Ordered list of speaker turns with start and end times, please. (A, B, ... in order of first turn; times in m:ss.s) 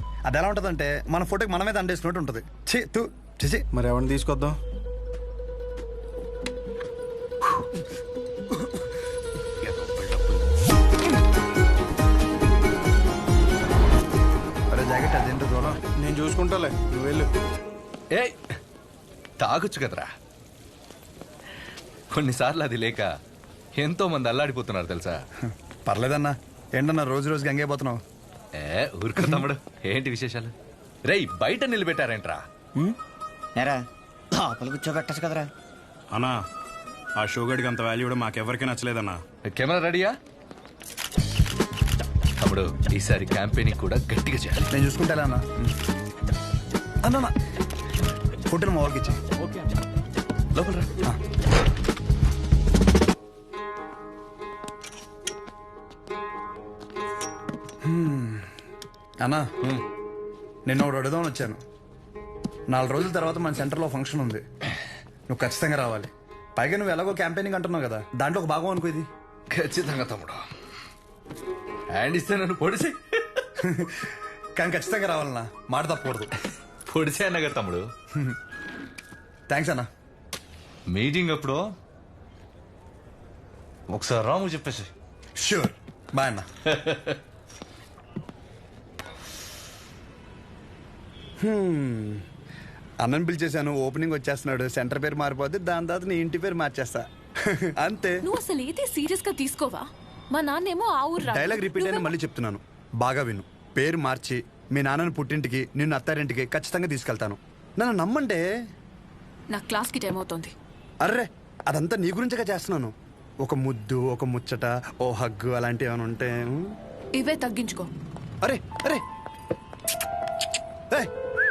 0:00.3-0:03.6 A
0:03.7-0:04.6 B
0:14.7-0:15.8 A
0:16.0-0:17.3 B
0:19.4-0:20.1 C
0:22.2-0:23.1 C
0:23.8-0:25.2 C
0:25.5-0:28.0 A
0:28.6-0:30.5 C
0:31.1-0:32.4 C
0:33.6-0:35.5 D
0:37.2-0:39.2 E
0:39.5-0:40.1 C
0:42.4-0:44.7 C
0:44.7-0:45.7 A
0:47.0-0:47.3 A
0:48.5-0:49.2 A
0:50.6-0:51.2 A
0:57.8-0:58.5 A
0:59.2-0:59.7 A
1:00.7-1:01.6 A
1:02.7-1:04.4 A
1:05.3-1:09.1 A
1:09.6-1:10.4 C
1:11.9-1:13.0 C
1:13.6-1:16.3 A
1:16.9-1:17.9 C
1:19.5-1:19.9 A
1:20.9-1:21.7 C
1:23.9-1:24.9 C
1:25.4-1:26.5 A
1:31.4-1:32.2 A
1:33.0-1:38.2 A
1:38.2-1:42.1 F
1:41.3-1:48.4 A
1:49.5-1:50.5 F
1:51.0-1:56.8 A
1:57.2-1:57.9 F
1:58.4-1:59.0 A